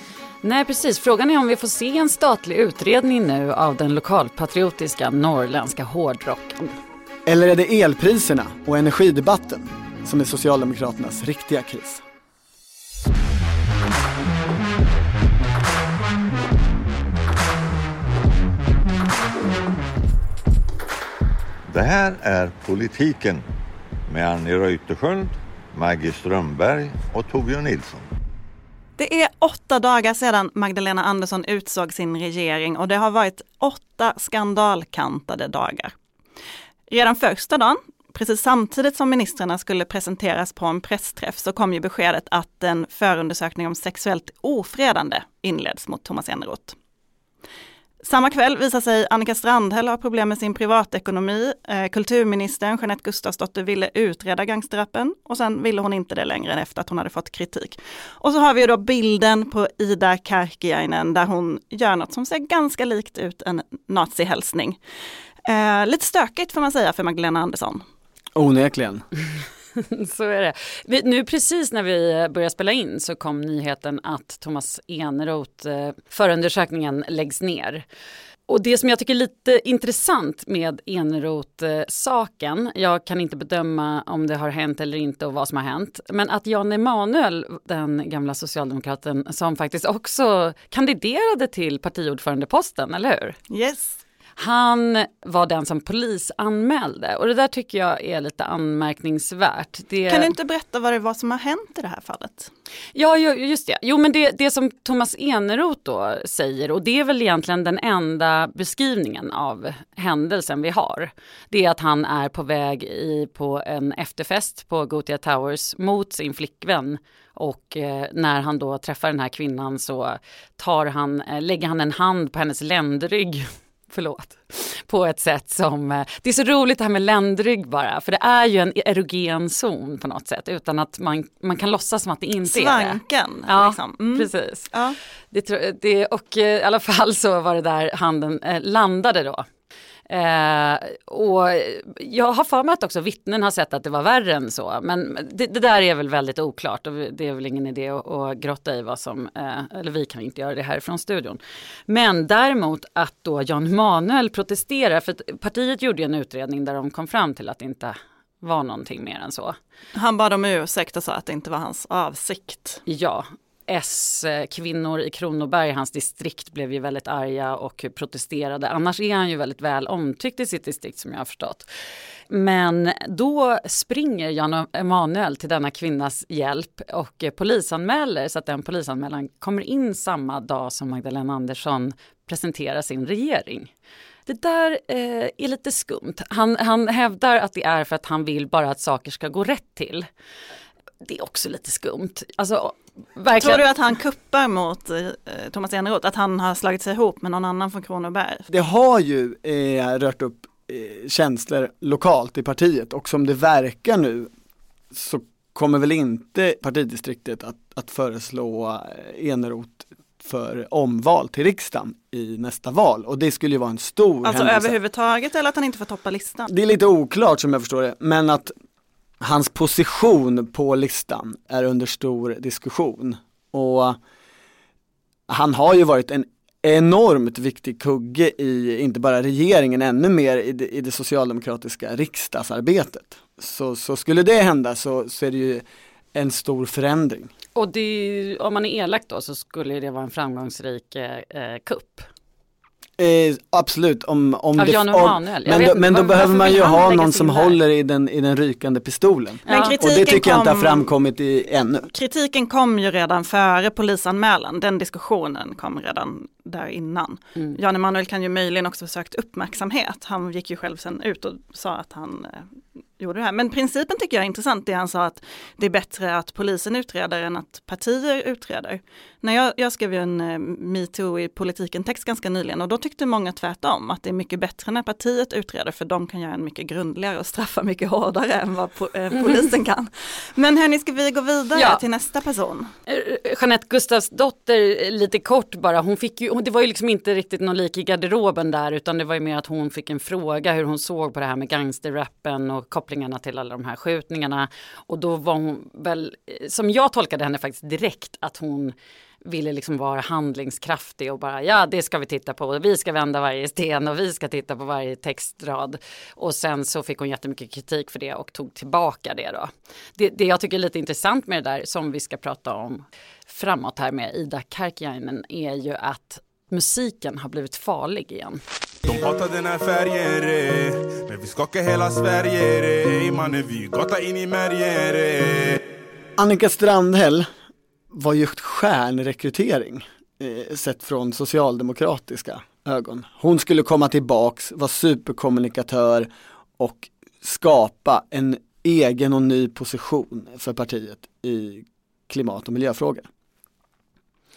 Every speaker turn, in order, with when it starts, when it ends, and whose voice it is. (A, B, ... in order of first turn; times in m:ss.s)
0:00.4-0:06.7 A
0:07.2-0:12.0 B
0:21.7-0:23.4 C
0:24.1-0:28.1 C
0:29.0-0:35.9 D
0:36.9-0:46.8 D
0:48.0-1:04.8 D
1:05.5-1:07.8 D
1:08.4-1:09.0 B
1:09.8-1:17.8 A
1:18.5-1:33.4 A
1:33.5-1:34.0 D
1:34.4-1:40.3 A
1:40.1-1:42.5 D
1:42.9-2:14.7 A
2:12.5-2:15.0 D
2:15.3-2:19.4 A
2:20.1-2:39.6 A
2:39.9-2:42.8 D
2:42.8-2:51.7 A
2:52.3-3:03.7 A
3:04.3-3:10.1 A
3:11.0-3:13.6 A
3:13.4-3:18.4 D
3:18.5-3:24.3 B
3:24.9-3:34.7 B
3:34.2-3:36.5 D
3:36.5-3:38.5 B
3:39.2-3:44.0 B
3:45.3-3:57.3 B
3:57.5-4:02.0 A
4:03.0-4:11.9 B
4:04.6-4:07.6 A
4:09.5-4:09.8 A
4:09.5-4:10.9 D
4:11.9-4:22.5 D
4:23.0-4:42.7 D
4:39.2-4:39.5 A
4:41.5-4:41.8 A
4:42.9-4:58.7 A
4:59.2-5:18.4 A
5:18.8-5:25.6 E
5:26.2-5:27.3 B
5:27.9-5:43.1 B